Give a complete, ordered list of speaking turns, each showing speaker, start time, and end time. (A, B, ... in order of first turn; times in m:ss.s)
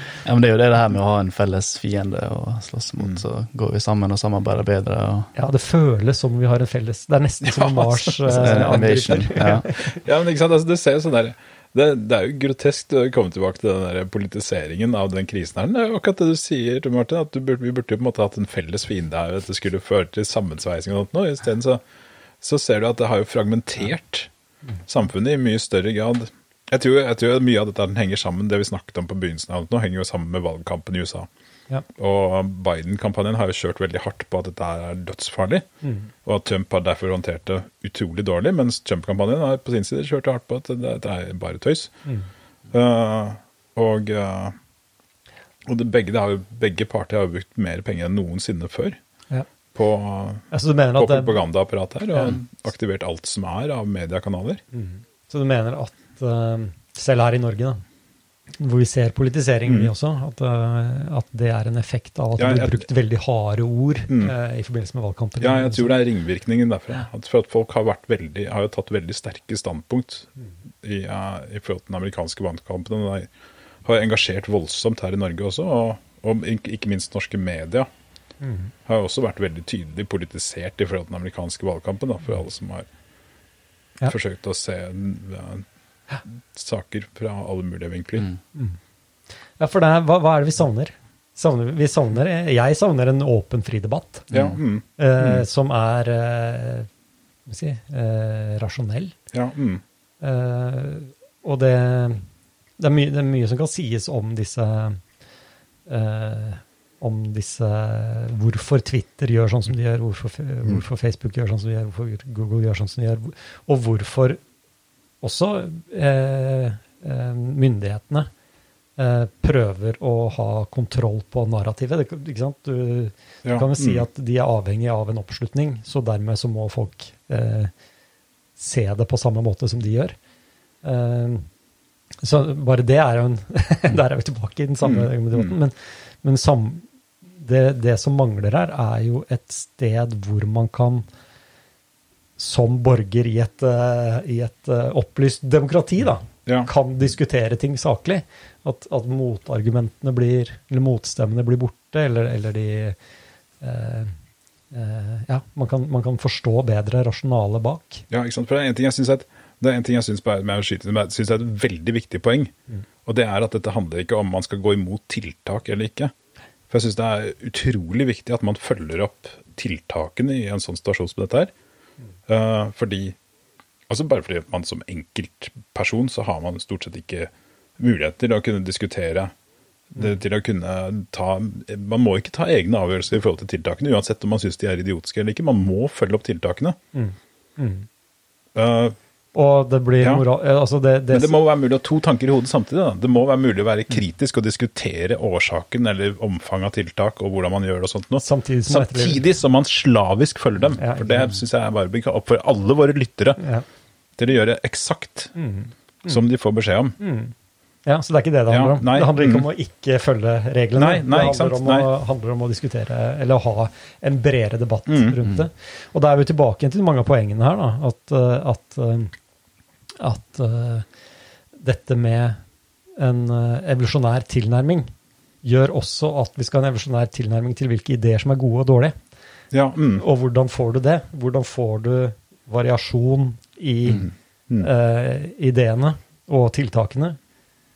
0:00.2-0:05.3 A
0:05.4-0:10.0 B
0:07.5-0:21.8 C
0:08.3-0:09.7 A
0:22.4-0:24.3 C
0:24.9-0:31.3 C
0:32.0-0:35.7 C
0:35.8-0:36.1 B
0:36.2-0:41.9 C
0:42.7-0:44.6 C
0:45.7-0:49.0 C
0:49.7-0:54.6 C
0:50.5-0:51.4 B
0:52.1-0:52.4 B
0:54.7-0:57.8 B
0:58.6-1:06.0 B
0:59.7-0:59.9 C
1:02.4-1:02.8 C
1:04.1-1:04.3 C
1:05.4-1:10.3 C
1:10.8-1:13.3 C
1:13.8-1:17.9 C
1:18.4-1:18.7 B
1:18.9-1:22.9 C
1:24.1-1:25.7 C
1:26.2-1:28.3 C
1:29.6-1:34.3 B
1:34.3-1:35.4 C
1:35.0-1:36.9 B
1:37.5-1:39.2 B
1:39.3-1:39.8 C
1:40.2-1:42.3 B
1:42.8-1:45.0 B
1:45.9-1:54.4 B
1:55.2-1:58.3 B
1:59.0-2:07.7 B
2:03.4-2:04.0 C
2:08.6-2:10.2 B
2:10.8-2:11.5 B
2:12.2-2:21.1 B
2:14.8-2:15.5 C
2:22.4-2:33.0 B
2:33.6-2:34.2 B
2:34.7-2:38.1 B
2:38.1-2:42.5 C
2:43.1-2:46.1 C
2:46.7-2:51.5 C
2:52.3-2:53.2 C
2:53.9-2:59.3 C
2:59.9-3:06.8 C
3:06.9-3:07.9 B
3:08.6-3:09.0 C
3:09.3-3:11.4 B
3:11.1-3:23.4 C
3:18.2-3:19.2 B
3:20.8-3:21.3 B
3:23.4-3:23.6 B
3:24.2-3:25.4 C
3:25.4-3:26.2 B
3:26.1-3:27.0 C
3:27.0-3:27.3 B
3:27.9-3:39.1 B
3:28.5-3:29.4 C
3:30.8-3:31.9 C
3:34.9-3:35.2 C
3:40.0-3:40.9 B
3:41.5-3:42.4 B
3:43.0-3:44.9 B
3:45.4-3:49.0 B
3:49.5-3:50.0 C
3:50.0-3:57.2 B